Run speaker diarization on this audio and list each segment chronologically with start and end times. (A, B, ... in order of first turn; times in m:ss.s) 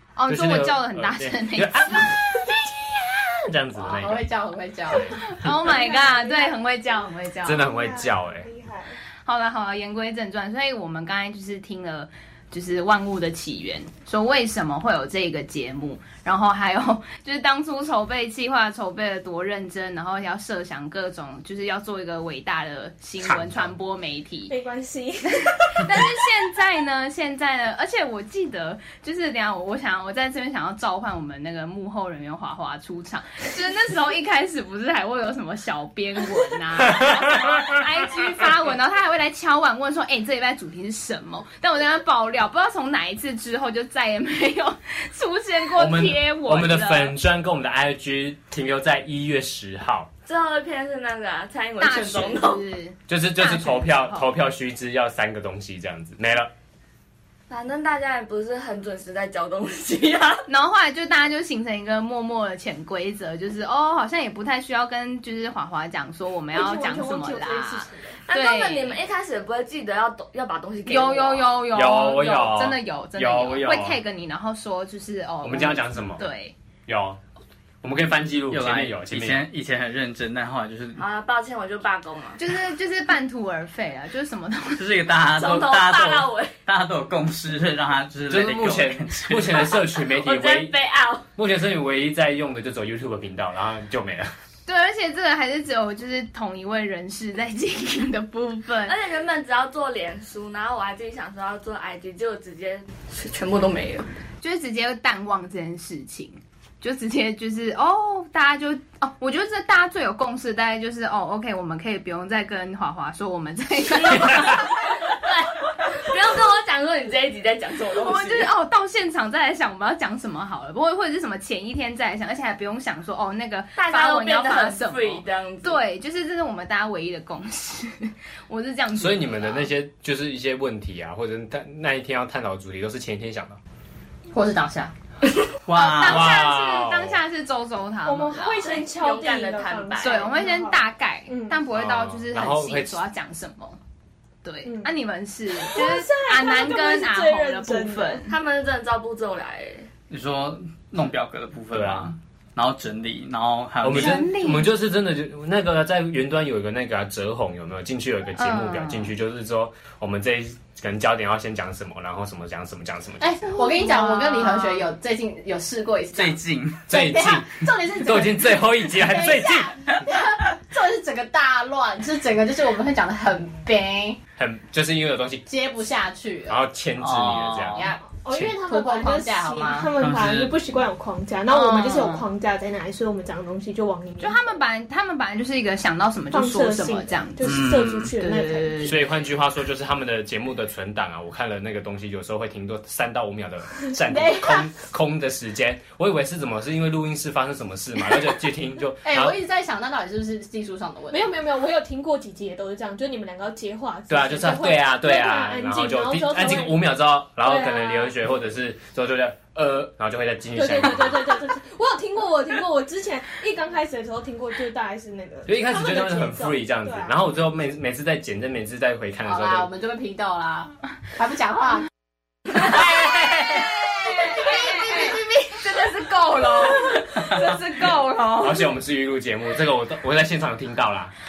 0:00.2-0:02.1 A
0:00.3-0:04.3 B
0:03.8-0:05.1 C
0:04.9-0:05.5 B
0:05.3-0:07.7 A
0:05.5-0:06.6 D
0:07.4-0:08.5 B
0:07.6-0:09.0 D
0:09.2-0:24.5 A
0:23.2-0:23.7 B
0:24.5-0:26.0 D
0:25.3-0:47.1 A
0:45.8-0:50.1 B
0:50.3-0:52.6 E
0:51.8-0:54.3 A
0:53.1-0:56.5 B
0:57.5-1:00.4 E
1:00.5-1:09.0 A
1:06.5-1:08.2 D
1:08.3-1:11.5 E
1:10.8-1:16.5 A
1:11.7-1:14.0 B
1:15.4-1:16.2 B
1:16.9-1:17.2 B
1:17.8-1:19.5 B
1:18.5-1:21.0 F
1:21.0-1:22.4 E
1:22.4-1:24.9 A
1:24.8-1:29.7 F
1:25.3-1:26.5 E
1:28.3-1:30.8 B
1:29.7-1:31.2 E
1:31.4-1:34.3 B
1:34.7-1:39.0 A
1:38.8-1:44.0 E
1:44.4-1:54.8 A
1:55.0-1:58.5 E
1:58.0-2:09.7 A
2:03.8-2:05.8 E
2:09.0-2:13.6 B
2:14.3-2:14.9 C
2:15.6-2:16.4 F
2:15.7-2:18.8 A
2:16.0-2:17.2 B
2:18.0-2:21.6 D
2:18.9-2:20.3 E
2:20.0-2:23.8 A
2:21.7-2:23.0 B
2:24.4-2:28.3 A
2:24.6-2:24.9 D
2:25.6-2:28.2 D
2:28.3-2:29.9 E
2:30.1-2:34.3 F
2:31.7-2:32.1 B
2:33.8-2:43.4 B
2:33.9-2:34.7 A
2:38.4-2:39.1 A
2:43.2-2:54.2 C
2:43.6-2:44.9 A
2:46.1-2:46.9 F
2:46.9-2:50.0 B
2:54.4-2:55.4 B
2:55.4-2:56.6 C
2:56.5-2:57.9 B
2:57.0-2:57.9 F
2:57.7-2:59.9 C
2:58.2-3:04.4 D
3:00.0-3:00.6 F
3:01.5-3:02.2 A
3:04.2-3:09.0 A
3:06.3-3:08.8 D
3:07.4-3:08.1 F
3:08.8-3:19.4 B
3:14.1-3:14.7 C
3:19.0-3:21.3 C
3:21.1-3:28.1 D
3:24.1-3:31.4 B
3:30.5-3:37.1 D
3:35.5-3:39.7 B
3:39.2-3:41.9 C
3:44.4-3:45.6 E
3:45.6-3:46.7 A
3:48.4-3:51.1 B